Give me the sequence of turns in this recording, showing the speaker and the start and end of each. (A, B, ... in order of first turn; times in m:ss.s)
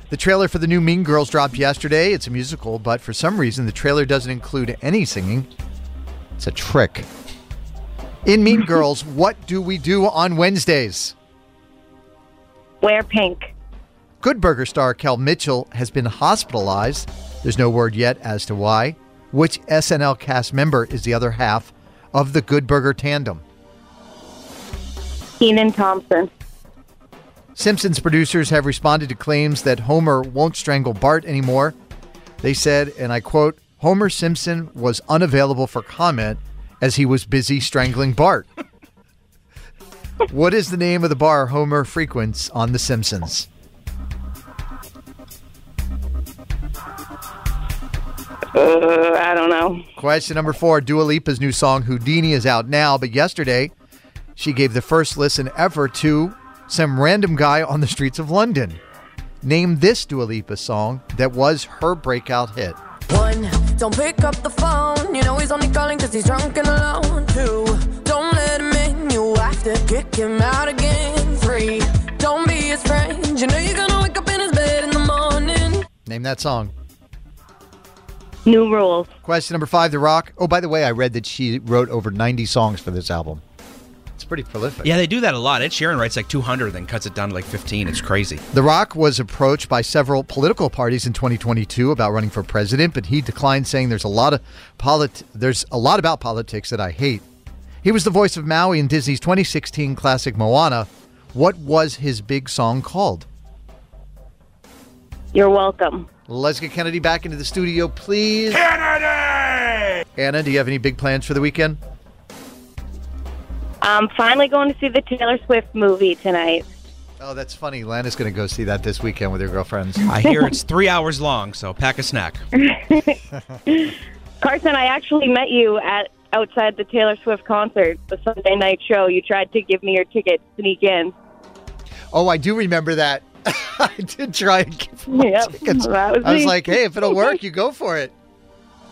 0:00.1-0:05.5 A
0:06.4-0:07.1 A
0:08.2-0:11.1 A
0:12.8-0:13.5 B
0:14.2-0:23.4 A
0:25.4-0:26.3 B
0:27.6-0:31.8 A
0:32.4-0:38.5 A
0:40.3-0:43.5 A
0:48.5-0:49.8 B
0:50.0-0:53.7 A
0:54.4-0:58.8 A
0:59.4-1:02.8 A
1:03.1-1:15.8 C
1:16.0-1:16.7 A
1:18.4-1:19.1 B
1:19.2-1:23.4 A
1:24.2-1:24.9 A
1:24.8-1:28.4 D
1:28.5-1:37.2 A
1:37.8-1:43.3 A
1:45.3-1:46.1 B
1:46.3-1:48.7 A
1:50.2-1:51.8 A
1:53.8-1:56.6 B
1:57.2-2:00.0 A
2:00.0-2:02.4 D
2:02.6-2:03.2 B
2:03.7-2:11.1 B
2:12.1-2:18.1 A
2:15.1-2:17.4 B